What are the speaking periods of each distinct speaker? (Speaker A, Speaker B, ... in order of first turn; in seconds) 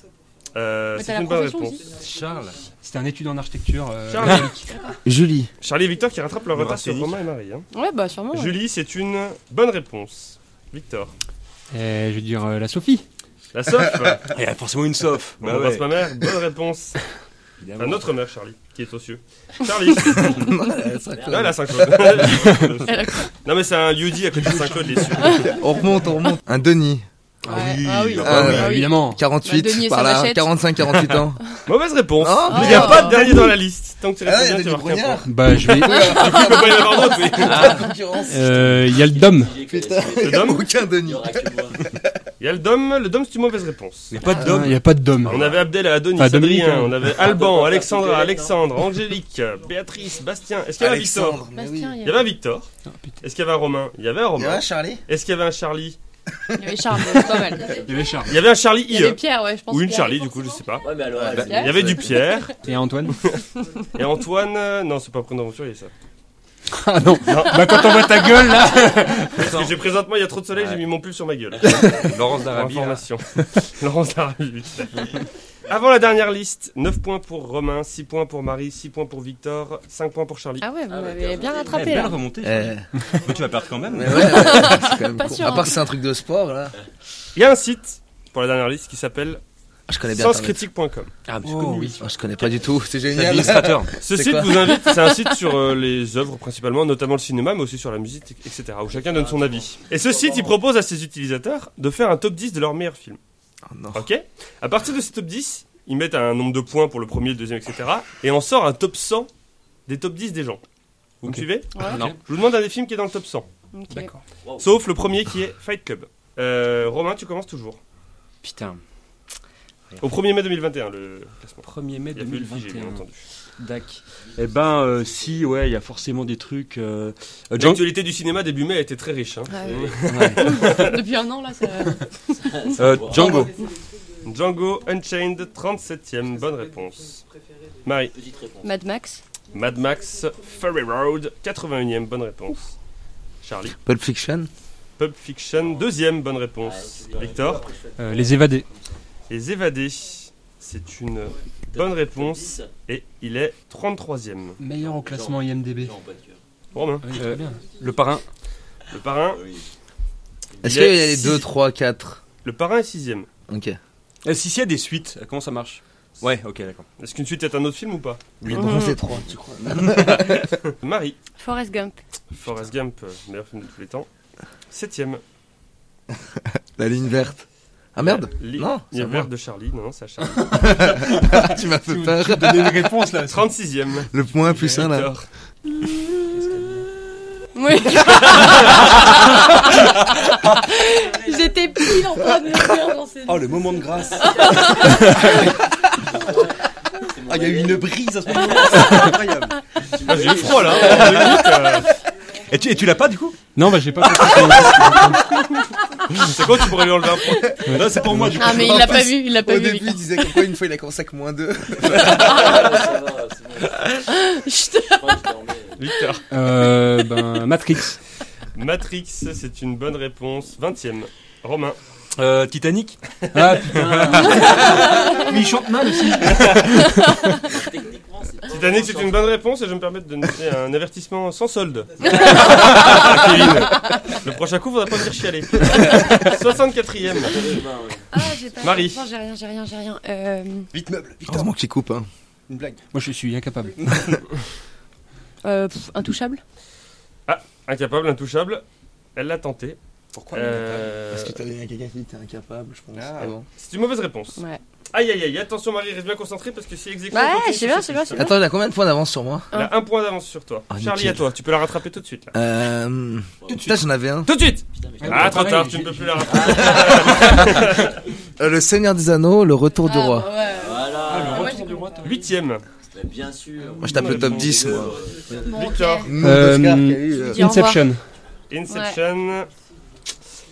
Speaker A: 0.5-1.8, 4.1-4.5, 5.6-7.7, 8.3-11.1, 13.5-14.3, 15.4-17.0, 17.8-20.6, 21.3-25.5, 31.7-35.3, 35.9-37.7, 40.2-40.6, 42.4-44.1, 45.2-51.4, 52.0-52.7, 53.2-56.0, 58.3-60.9, 61.5-62.5, 63.1-63.4, 63.9-65.9, 67.2-68.0, 69.4-80.7, 87.3-89.4, 90.1-91.1, 94.0-103.2, 103.9-109.3, 109.9-110.6, 111.2-113.5, 114.6-117.8, 120.0-123.2, 127.6-131.0, 134.2-137.2, 137.8-138.1, 139.5-142.7, 143.4-143.8, 145.0-147.6, 149.3-154.6, 156.7-157.1, 158.9-159.4, 160.6-161.4, 162.4-163.3, 167.0-168.3, 169.8-171.2, 172.3-174.1, 174.7-175.2, 178.0-180.7, 183.3-185.3, 200.0-201.9, 206.1-207.6, 215.8-216.2, 218.6-221.8, 223.2-223.6, 228.4-237.5, 238.6-239.0, 247.3-248.6, 249.2-249.8, 250.3-251.4, 253.6-254.4, 254.9-258.3, 259.5-262.4, 264.3-268.0, 272.0-272.6, 273.8-276.1, 278.5-279.5
Speaker B: 0.9-1.9, 4.7-5.0, 7.7-8.6, 20.2-20.6, 22.8-23.3, 25.2-25.6, 27.5-31.2, 32.5-33.5, 35.8-37.8, 51.5-52.3, 56.5-57.9, 58.9-60.6, 61.4-62.5, 80.6-82.2, 84.1-85.8, 111.8-112.0, 113.7-114.1, 129.5-133.6, 138.6-139.2, 168.5-169.0, 171.4-172.0, 187.6-195.5, 207.2-207.6, 208.3-210.4, 212.0-212.8, 214.1-215.3, 224.4-225.3, 232.0-234.2, 238.1-240.7, 245.4-246.4, 257.1-258.4, 269.8-271.9, 275.3-276.1, 277.1-277.9, 278.7-279.0
Speaker C: 2.0-2.6, 6.5-7.2, 14.3-15.9, 17.6-18.0, 27.4-28.7, 37.4-37.9, 44.1-45.3, 69.4-69.7, 71.8-73.0, 81.7-84.8, 91.3-92.0, 93.1-94.0, 111.2-112.2, 118.4-118.8, 121.7-123.0, 123.6-127.9, 130.1-130.7, 132.8-133.5, 157.1-158.2, 164.2-166.9, 168.4-168.8, 193.3-195.5, 197.3-199.6, 200.8-201.5, 202.5-203.4, 207.6-209.0, 222.2-223.0, 240.7-241.5, 242.5-242.8, 243.8-244.2, 250.1-250.9, 252.9-253.3
Speaker D: 2.8-4.7, 11.7-13.1, 24.4-25.3, 27.5-29.2, 35.2-36.1, 38.3-39.5, 44.3-45.6, 46.1-47.1, 57.7-58.4, 62.6-63.2, 66.7-69.5, 91.5-92.0, 113.9-114.2, 148.0-148.7, 154.6-155.9, 157.0-157.6, 180.5-183.4, 186.3-186.8, 203.6-205.4, 207.7-208.6, 216.3-218.0, 223.3-227.1, 242.9-244.2, 265.0-266.5, 271.1-272.2, 276.2-278.0
Speaker E: 5.0-5.5, 20.4-22.4, 25.4-27.1, 28.2-31.4, 32.2-33.5, 34.2-38.7, 39.7-42.1, 50.8-52.0, 54.4-55.0, 61.1-62.1, 82.4-82.8, 83.9-86.8, 89.9-90.6, 92.0-94.8, 103.7-104.1, 143.8-144.5, 160.6-162.2, 163.5-163.8, 168.4-170.6, 176.3-177.4, 177.9-179.3, 180.5-182.9, 184.1-185.1, 208.4-212.6, 241.3-242.1, 251.1-253.4, 258.1-259.5, 260.7-261.2, 262.3-264.3, 268.4-270.3, 273.8-274.9, 276.0-277.4
Speaker F: 21.1-21.5, 38.8-42.0, 47.1-48.6, 60.8-62.1, 80.9-82.2, 98.9-100.6, 114.4-114.7, 124.3-125.5, 129.6-130.2, 132.4-133.4, 138.1-138.8, 145.6-145.9, 146.6-148.9, 151.7-152.7, 154.8-156.4, 159.3-159.7, 194.2-194.6, 195.9-199.2, 199.9-201.7, 211.9-213.9, 214.9-215.9, 223.6-225.1, 227.4-229.3, 237.0-238.1, 263.4-263.8, 264.7-265.5, 266.2-267.6, 270.4-271.7, 272.9-275.7